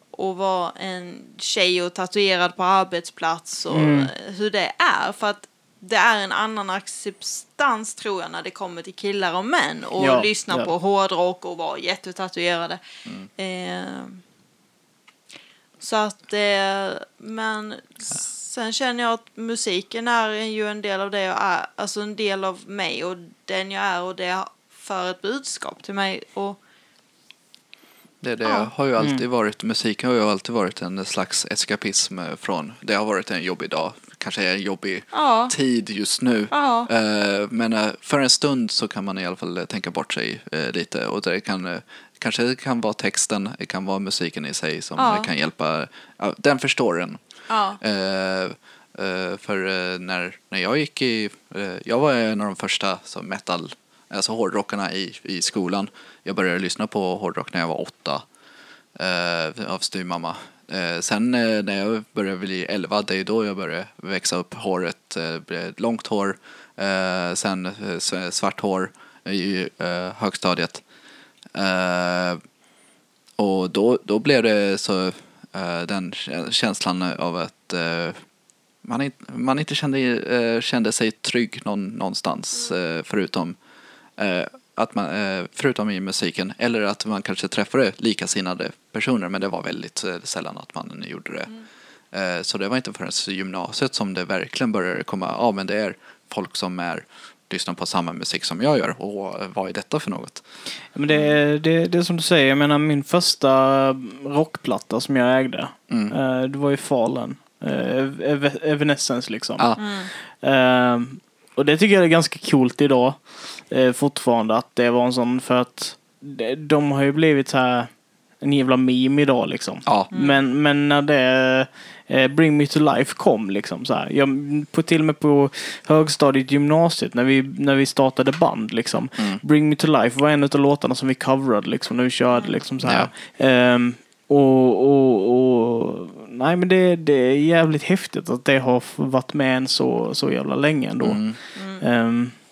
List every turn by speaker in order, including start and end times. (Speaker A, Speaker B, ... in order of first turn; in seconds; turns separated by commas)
Speaker A: 0.1-12.8, Speaker B: 3.7-4.1, Speaker B: 10.0-10.7, Speaker A: 13.4-14.2, Speaker A: 15.8-26.6, Speaker C: 28.2-47.2, Speaker A: 28.4-28.7, Speaker B: 29.0-29.2, Speaker A: 35.1-35.5, Speaker A: 36.5-36.9, Speaker A: 45.0-45.3, Speaker A: 47.5-47.8, Speaker C: 47.8-58.2, Speaker C: 59.0-70.8, Speaker C: 71.5-72.4, Speaker C: 73.4-78.2, Speaker C: 78.8-83.6, Speaker C: 84.2-91.5, Speaker C: 92.1-100.4, Speaker B: 101.0-141.3, Speaker A: 101.1-101.4, Speaker C: 105.9-106.2, Speaker A: 109.8-110.1, Speaker A: 120.1-120.4, Speaker A: 132.3-132.6, Speaker C: 132.8-133.1, Speaker C: 141.0-141.4, Speaker A: 141.6-141.8, Speaker B: 141.8-142.4